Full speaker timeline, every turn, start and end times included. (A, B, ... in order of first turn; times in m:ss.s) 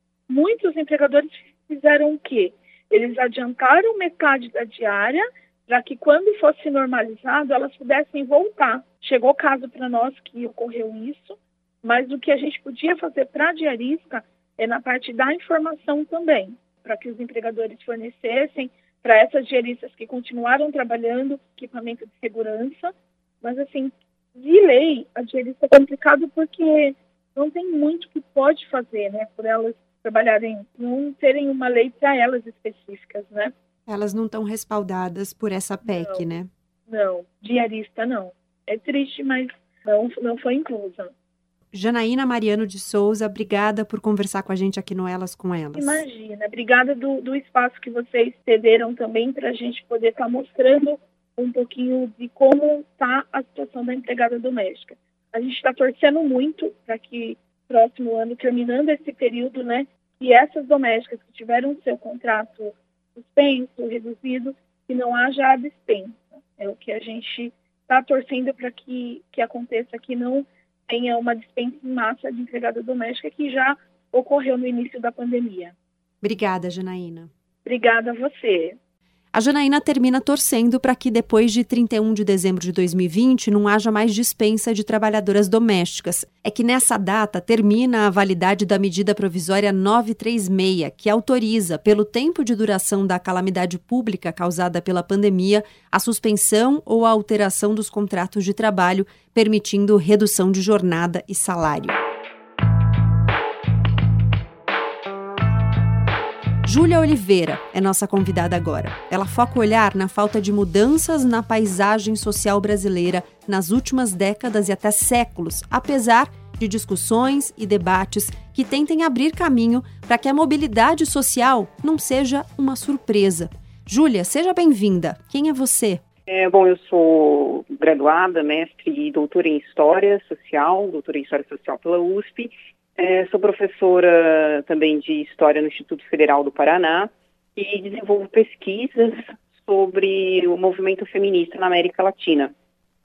0:00.3-0:33.5 A
0:33.9-0:36.5 B
0:35.9-0:36.2 A
0:36.9-0:41.1 A
0:41.7-0:46.0 B
0:45.8-1:15.7 A
1:16.2-1:17.3 B
1:17.6-1:18.8 A
1:19.3-1:42.0 B
1:46.6-2:06.0 B
2:06.3-2:22.5 C